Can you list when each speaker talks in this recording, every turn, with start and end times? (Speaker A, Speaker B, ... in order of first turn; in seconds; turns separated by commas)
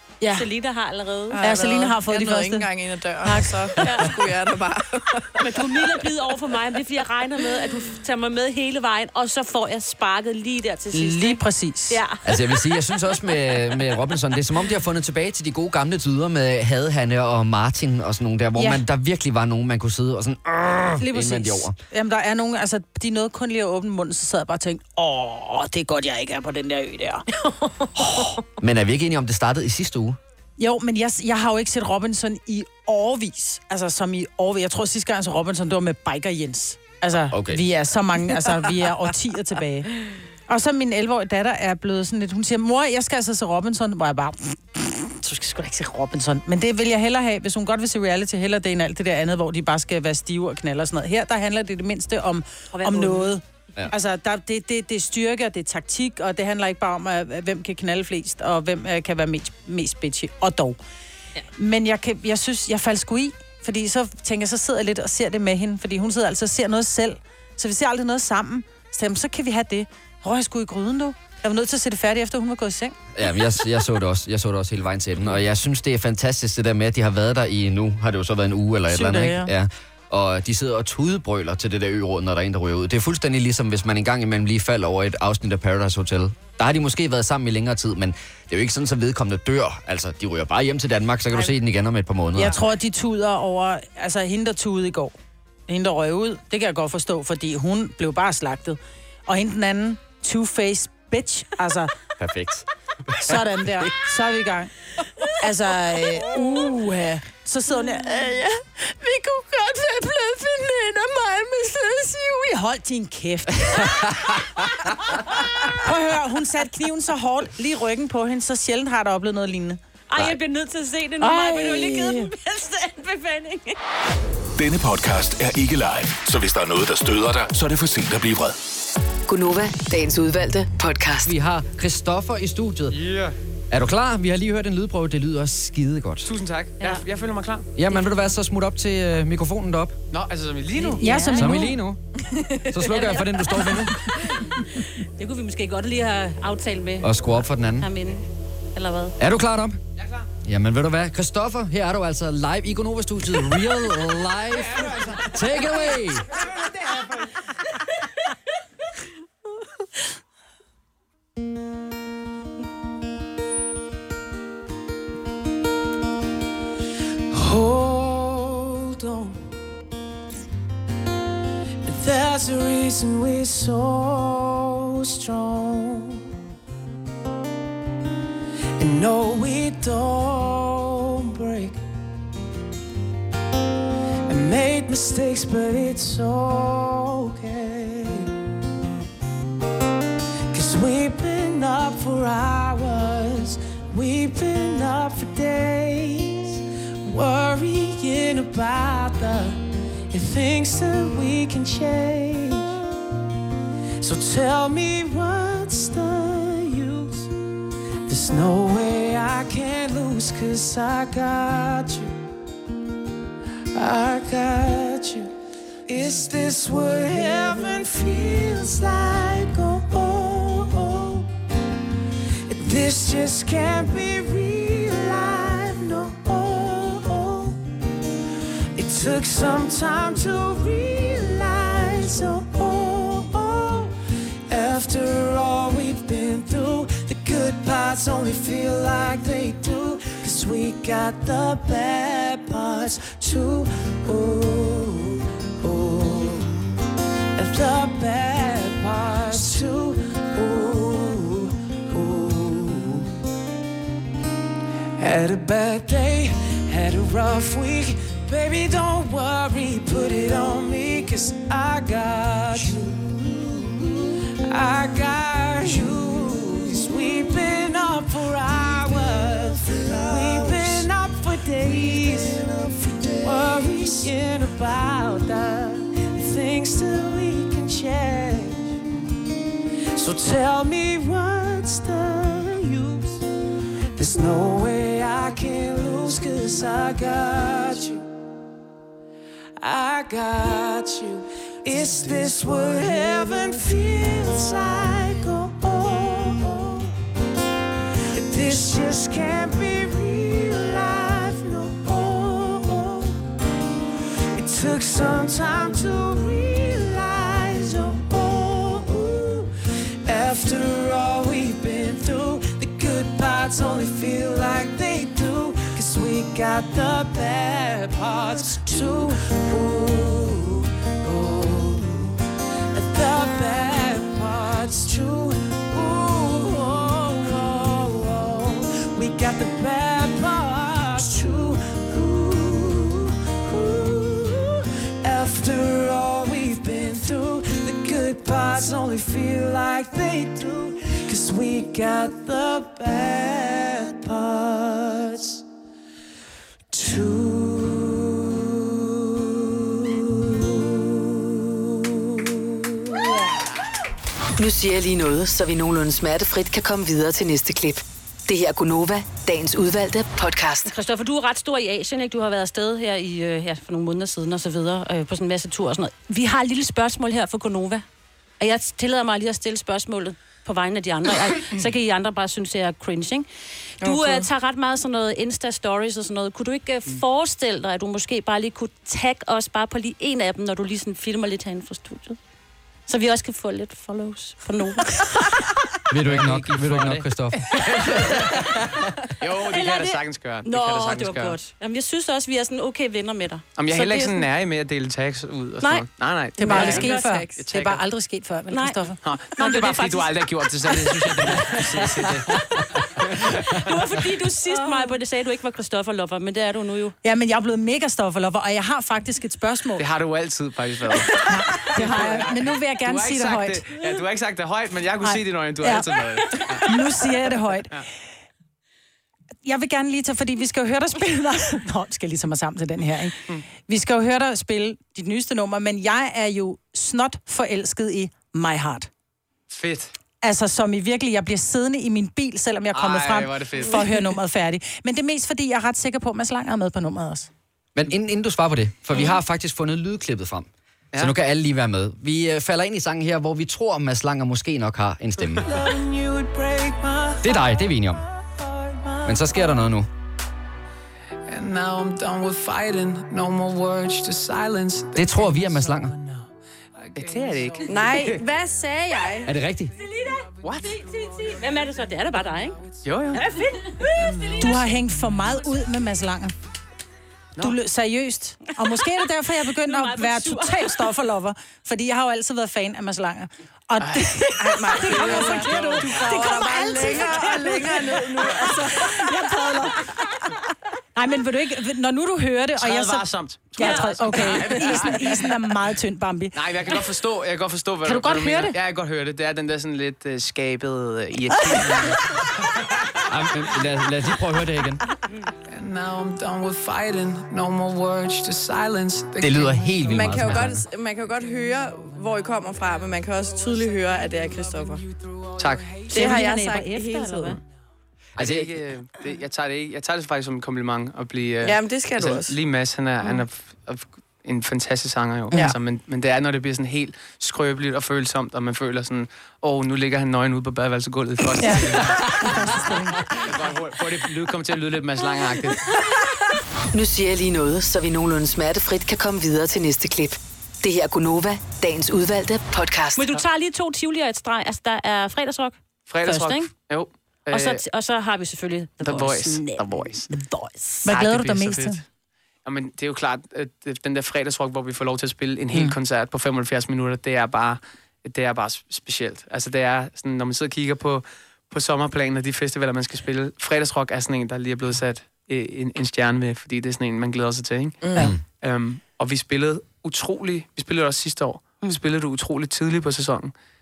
Speaker A: 0.2-0.5, Speaker B: 0.3-1.4, Speaker C: 1.3-5.6, Speaker A: 1.4-2.7, Speaker A: 3.2-3.5, Speaker B: 3.8-4.2, Speaker B: 5.4-13.0, Speaker A: 10.9-12.0, Speaker D: 12.2-21.8, Speaker A: 18.6-18.8, Speaker A: 21.0-27.2, Speaker D: 28.6-30.2, Speaker A: 30.6-60.8, Speaker D: 37.3-37.6, Speaker B: 52.7-53.3, Speaker A: 61.6-73.0, Speaker D: 73.2-92.6, Speaker A: 78.9-79.5, Speaker A: 92.3-95.2, Speaker A: 95.7-101.9, Speaker D: 102.2-103.9, Speaker A: 103.2-104.7, Speaker A: 105.4-114.3, Speaker A: 115.7-119.8, Speaker B: 120.1-123.8, Speaker A: 121.2-122.3, Speaker E: 124.6-128.6, Speaker F: 129.3-131.3, Speaker D: 131.2-133.0, Speaker G: 132.9-133.3, Speaker D: 133.7-136.3, Speaker G: 136.2-137.7, Speaker D: 137.8-139.9, Speaker B: 137.9-138.2, Speaker G: 140.1-141.3, Speaker B: 140.8-141.7, Speaker A: 141.0-141.8, Speaker D: 141.4-142.0, Speaker D: 142.7-144.0, Speaker B: 142.9-147.2, Speaker D: 147.0-147.9, Speaker B: 147.8-149.2, Speaker D: 149.2-149.8, Speaker D: 150.4-156.3, Speaker H: 167.3-169.5, Speaker H: 171.8-176.3, Speaker H: 178.8-181.8, Speaker H: 184.3-188.3, Speaker H: 190.5-202.8, Speaker H: 204.0-207.3, Speaker H: 208.1-212.2, Speaker H: 213.7-215.3, Speaker H: 215.9-221.3, Speaker H: 222.5-227.6, Speaker H: 228.8-233.9, Speaker H: 234.5-246.5, Speaker H: 247.3-253.1, Speaker H: 255.0-278.8, Speaker H: 279.9-283.2, Speaker H: 284.0-288.0, Speaker H: 289.6-296.9, Speaker H: 298.1-303.2, Speaker H: 304.3-322.2, Speaker H: 322.7-345.4, Speaker H: 346.7-352.7, Speaker F: 354.4-360.7, Speaker B: 360.6-367.9, Speaker B: 368.4-373.3, Speaker B: 373.8-382.2, Speaker C: 373.8-374.3, Speaker B: 382.9-385.4, Speaker D: 385.9-387.4, Speaker G: 386.1-388.6, Speaker B: 387.9-388.6, Speaker G: 389.2-391.4, Speaker B: 389.5-394.2, Speaker G: 393.6-397.8, Speaker B: 395.6-395.9, Speaker A: 396.4-399.0, Speaker B: 396.4-397.2, Speaker C: 396.5-397.2, Speaker B: 398.5-401.6, Speaker G: 399.0-402.4, Speaker B: 402.4-402.6, Speaker G: 403.0-403.7, Speaker B: 403.2-406.9, Speaker A: 407.0-409.8, Speaker G: 409.8-416.7, Speaker A: 411.2-413.7, Speaker A: 415.0-416.0, Speaker A: 416.6-417.8, Speaker A: 419.4-428.9, Speaker G: 429.5-429.9, Speaker A: 430.2-437.3, Speaker G: 432.7-434.1, Speaker D: 437.8-445.5, Speaker H: 445.4-449.6, Speaker D: 447.2-448.0, Speaker D: 449.1-449.9, Speaker H: 451.3-456.3, Speaker D: 454.9-455.9, Speaker H: 456.8-457.9, Speaker G: 456.9-458.2, Speaker C: 457.7-459.3, Speaker D: 459.2-459.7, Speaker B: 459.8-464.4, Speaker G: 460.4-460.8, Speaker G: 462.8-463.2, Speaker H: 464.0-464.9, Speaker A: 464.4-466.3, Speaker A: 467.4-480.0, Speaker B: 469.6-470.9, Speaker G: 473.8-476.2, Speaker C: 474.4-479.0, Speaker B: 475.7-476.9, Speaker A: 480.9-486.4, Speaker G: 482.6-485.3, Speaker B: 483.6-484.8, Speaker G: 486.3-492.2, Speaker A: 487.9-488.6, Speaker D: 493.1-494.8, Speaker H: 495.5-499.9, Speaker D: 499.2-500.6, Speaker C: 499.9-504.8, Speaker H: 504.9-505.9, Speaker G: 505.4-505.7, Speaker B: 505.9-507.4, Speaker C: 505.9-507.4, Speaker D: 508.2-508.5, Speaker G: 508.2-525.6, Speaker C: 511.4-512.3, Speaker A: 515.3-515.6, Speaker A: 521.4-523.0, Speaker F: 526.7-533.1, Speaker B: 533.0-536.5, Speaker G: 535.9-537.6, Speaker B: 537.3-540.7, Speaker G: 538.8-540.1, Speaker A: 540.8-541.8, Speaker G: 540.9-541.8, Speaker G: 542.5-563.3, Speaker C: 557.8-558.1